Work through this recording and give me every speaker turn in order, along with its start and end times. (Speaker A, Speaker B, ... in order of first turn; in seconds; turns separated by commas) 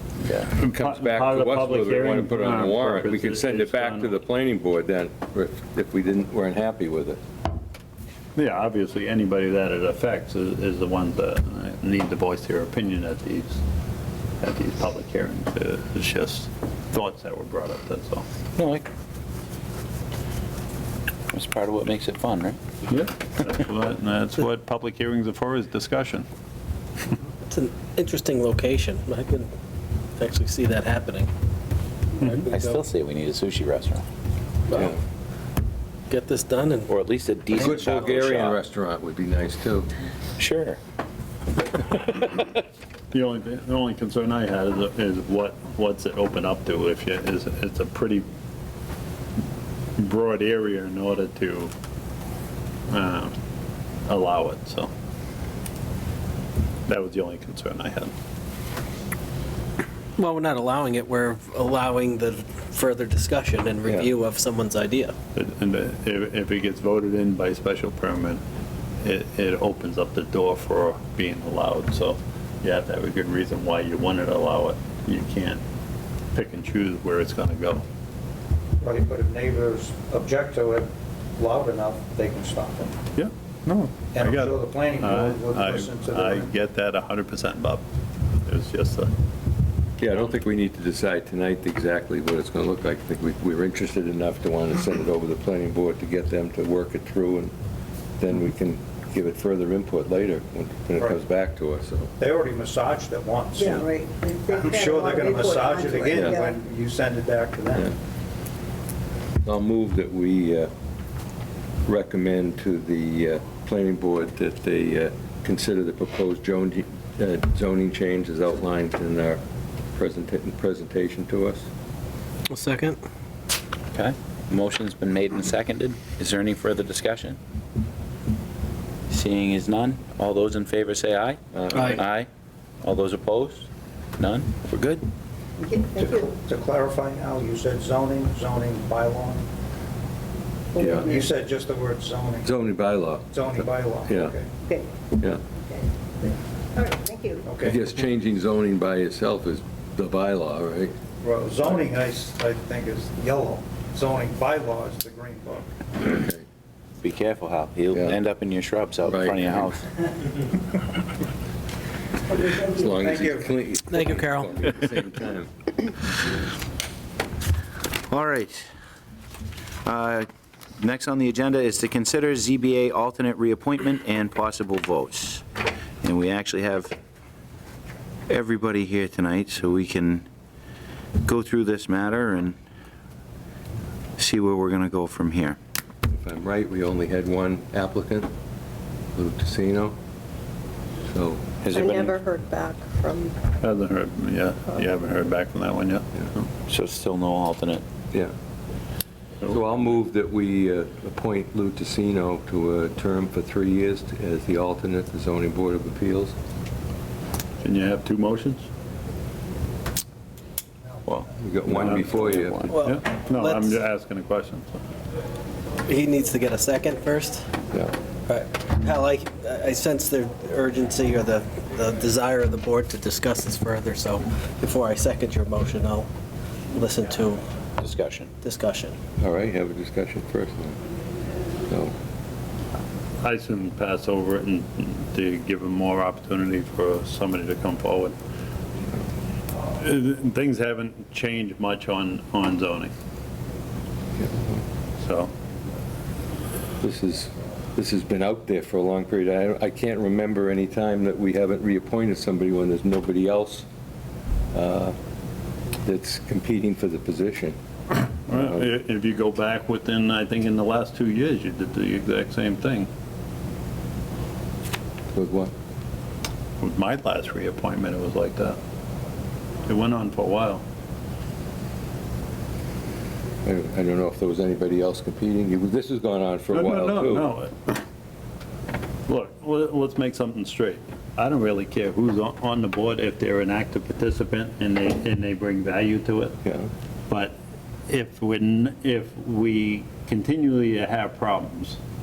Speaker A: 0.6-7.2, Speaker B: 0.6-4.2, Speaker B: 8.4-13.6, Speaker B: 14.4-18.2, Speaker C: 18.6-18.9, Speaker C: 21.3-22.6, Speaker B: 22.9-26.3, Speaker D: 27.5-29.5, Speaker D: 30.2-31.3, Speaker D: 32.2-32.8, Speaker C: 32.5-34.0, Speaker D: 36.1-36.9, Speaker C: 36.9-38.6, Speaker A: 37.6-39.9, Speaker C: 40.4-40.8, Speaker B: 43.1-48.2, Speaker B: 50.0-51.7, Speaker B: 52.9-53.3, Speaker B: 54.1-54.9, Speaker B: 56.9-58.1, Speaker D: 60.2-65.1, Speaker A: 63.9-64.1, Speaker B: 65.3-68.4, Speaker B: 69.0-75.6, Speaker B: 76.3-77.8, Speaker E: 78.8-82.9, Speaker B: 83.2-87.8, Speaker E: 84.1-86.5, Speaker B: 88.4-89.1, Speaker A: 90.0-97.5, Speaker A: 98.2-102.1, Speaker E: 102.2-103.9, Speaker F: 103.5-106.6, Speaker E: 104.5-107.9, Speaker A: 106.1-106.4, Speaker A: 109.4-110.7, Speaker A: 111.9-119.4, Speaker A: 119.9-121.7, Speaker D: 122.5-123.0, Speaker C: 123.9-127.4, Speaker C: 129.1-132.3, Speaker A: 131.5-132.0, Speaker D: 131.8-132.0, Speaker C: 132.8-135.1, Speaker F: 135.6-136.3, Speaker E: 136.0-139.4, Speaker F: 140.8-141.3, Speaker A: 140.8-141.2, Speaker E: 141.0-142.5, Speaker A: 142.4-144.3, Speaker E: 143.3-144.5, Speaker F: 144.7-145.0, Speaker F: 145.6-147.5, Speaker E: 147.5-147.8, Speaker A: 147.6-150.9, Speaker E: 151.2-155.7, Speaker A: 156.0-156.4, Speaker C: 157.0-159.9, Speaker A: 157.9-158.2, Speaker A: 159.1-159.7, Speaker A: 162.5-165.5, Speaker E: 163.0-163.5, Speaker D: 163.9-164.7, Speaker C: 168.1-168.7, Speaker C: 169.8-170.3, Speaker C: 170.8-175.4, Speaker C: 176.0-176.9, Speaker C: 178.3-180.3, Speaker C: 181.2-182.6, Speaker C: 184.2-185.6, Speaker A: 186.1-188.3, Speaker A: 189.2-190.0, Speaker A: 191.1-191.6, Speaker C: 191.6-192.2, Speaker F: 191.7-193.4, Speaker B: 193.6-196.5, Speaker C: 196.7-197.9, Speaker A: 199.5-206.3, Speaker B: 207.6-208.7, Speaker C: 211.1-212.8, Speaker A: 211.4-212.7, Speaker B: 211.8-212.2, Speaker D: 212.7-213.8, Speaker B: 212.8-214.8, Speaker D: 215.9-217.4, Speaker D: 218.3-226.1, Speaker D: 226.7-227.4, Speaker C: 227.8-228.3, Speaker D: 228.4-229.0, Speaker A: 229.2-230.8, Speaker A: 231.7-231.9, Speaker B: 233.2-238.2, Speaker B: 239.8-242.9, Speaker A: 244.2-244.6, Speaker B: 245.0-245.3, Speaker A: 246.8-253.7, Speaker A: 254.5-254.9, Speaker A: 255.8-257.6, Speaker B: 258.3-262.9, Speaker A: 258.3-258.6, Speaker A: 265.1-265.5, Speaker B: 266.6-268.6, Speaker B: 269.7-270.6, Speaker A: 273.4-277.3, Speaker B: 276.5-277.8, Speaker B: 279.1-286.4, Speaker A: 286.4-286.7, Speaker B: 287.1-287.4, Speaker B: 287.9-291.8